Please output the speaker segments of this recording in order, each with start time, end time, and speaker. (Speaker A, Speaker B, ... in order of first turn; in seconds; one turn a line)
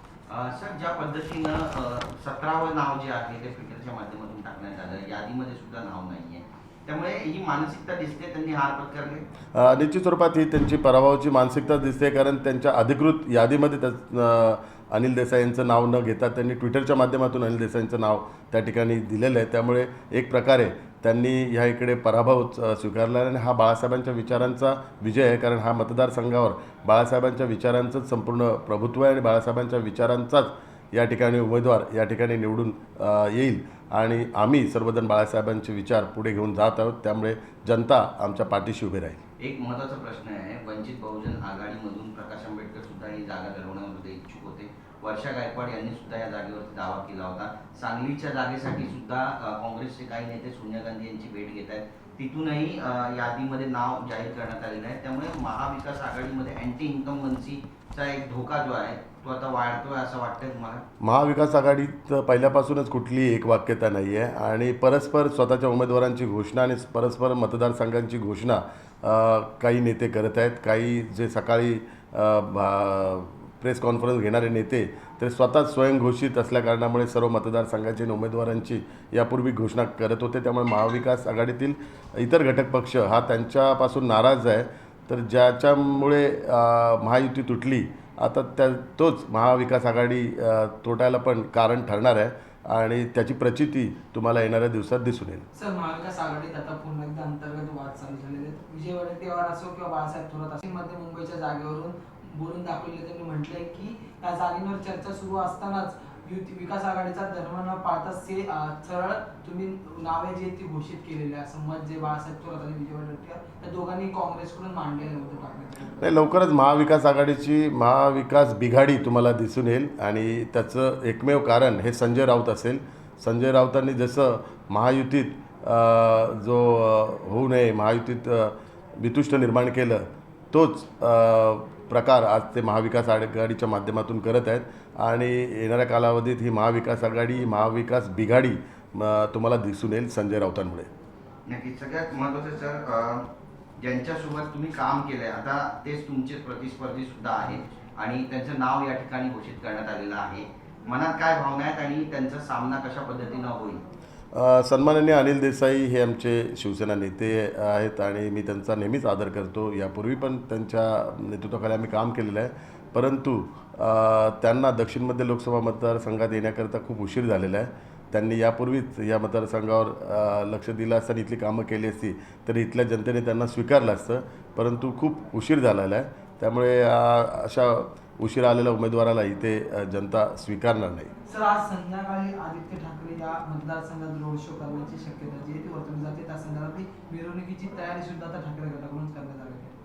Speaker A: 0.3-9.2
Speaker B: 9.5-39.2
Speaker A: 39.4-60.8
Speaker B: 61.0-95.5
Speaker C: 95.5-116.1
Speaker B: 116.0-140.9
Speaker A: 141.5-153.8
Speaker B: 154.3-181.1
Speaker C: 181.2-189.7